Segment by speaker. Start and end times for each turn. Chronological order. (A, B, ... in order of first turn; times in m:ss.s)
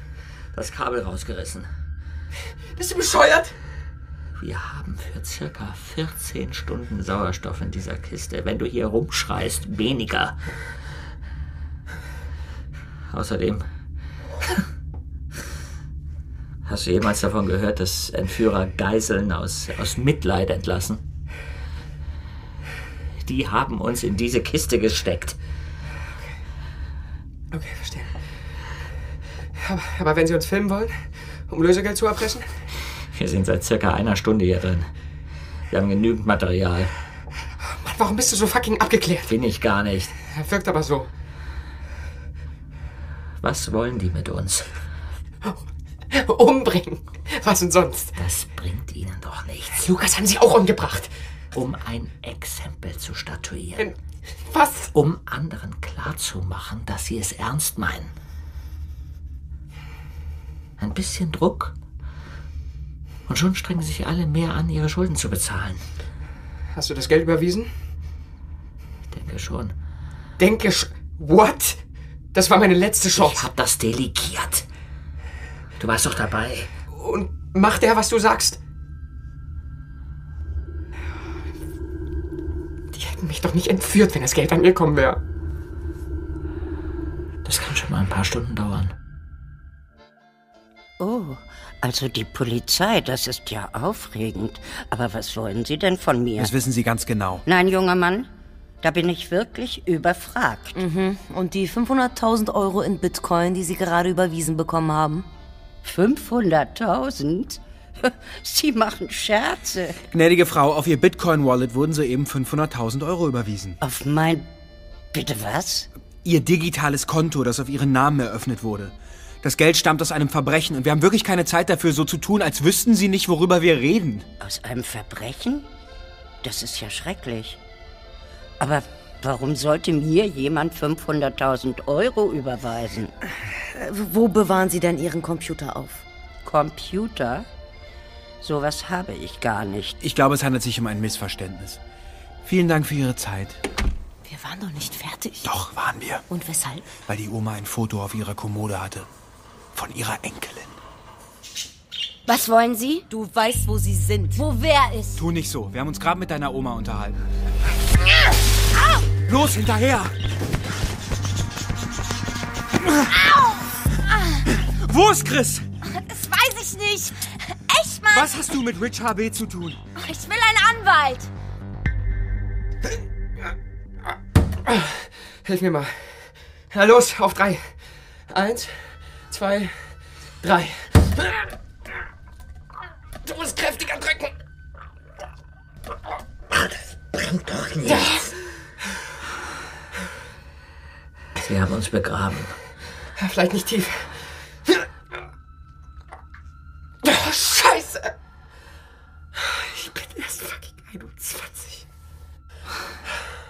0:00.5-0:01.7 A
0:02.8-0:03.6 B
0:04.4-0:10.7 A
0:13.1-0:13.7 A
0:16.6-0:21.0 A
0:23.2-0:25.4 A
0:27.5-0:28.6 B
0:29.6-0:32.6 B
0:33.1-0:34.9 A
0:35.7-0:37.0 A
0:37.7-0:39.4 B
0:39.2-0:40.1 A
0:40.2-0:41.1 B
0:43.4-0:44.8 A
0:45.5-0:48.2 B
0:48.2-0:49.8 A
0:49.7-0:51.1 B
0:51.5-0:53.9 A
0:53.8-0:54.9 B
0:54.9-0:58.1 A
1:00.8-1:01.8 A
1:03.3-1:05.9 A
1:06.7-1:07.8 B
1:09.1-1:09.8 A
1:10.4-1:13.5 B
1:13.2-1:14.7 A
1:15.8-1:16.7 A
1:16.9-1:18.6 B
1:22.9-1:25.2 B
1:27.4-1:29.0 A
1:31.0-1:36.5 C
1:36.4-1:37.4 D
1:37.5-1:38.3 C
1:38.8-1:40.8 C
1:40.8-1:45.3 E
1:45.8-1:50.0 C
1:50.1-1:53.8 D
1:53.8-1:54.5 C
1:55.1-1:55.9 C
1:56.2-2:04.3 D
2:04.4-2:05.7 C
2:06.4-2:07.6 C
2:08.6-2:13.1 C
2:13.7-2:16.0 E
2:16.4-2:17.5 C
2:18.4-2:20.0 C
2:20.0-2:21.8 D
2:22.4-2:23.6 D
2:24.2-2:25.5 E
2:25.4-2:26.2 D
2:26.3-2:26.9 E
2:27.0-2:29.1 D
2:29.8-2:30.8 D
2:32.3-2:33.1 F
2:33.1-2:34.4 E
2:34.3-2:35.2 F
2:35.2-2:37.2 D
2:38.8-2:39.0 F
2:39.2-2:40.1 D
2:43.1-2:44.5 F
2:44.6-2:45.7 D
2:45.8-2:48.4 F
2:48.1-2:49.8 D
2:50.0-2:51.3 F
2:54.6-3:01.3 B
3:03.2-3:04.3 B
3:06.5-3:08.2 A
3:07.8-3:08.3 B
3:11.4-3:12.6 A
3:13.2-3:14.7 B
3:17.0-3:18.1 B
3:19.4-3:21.8 B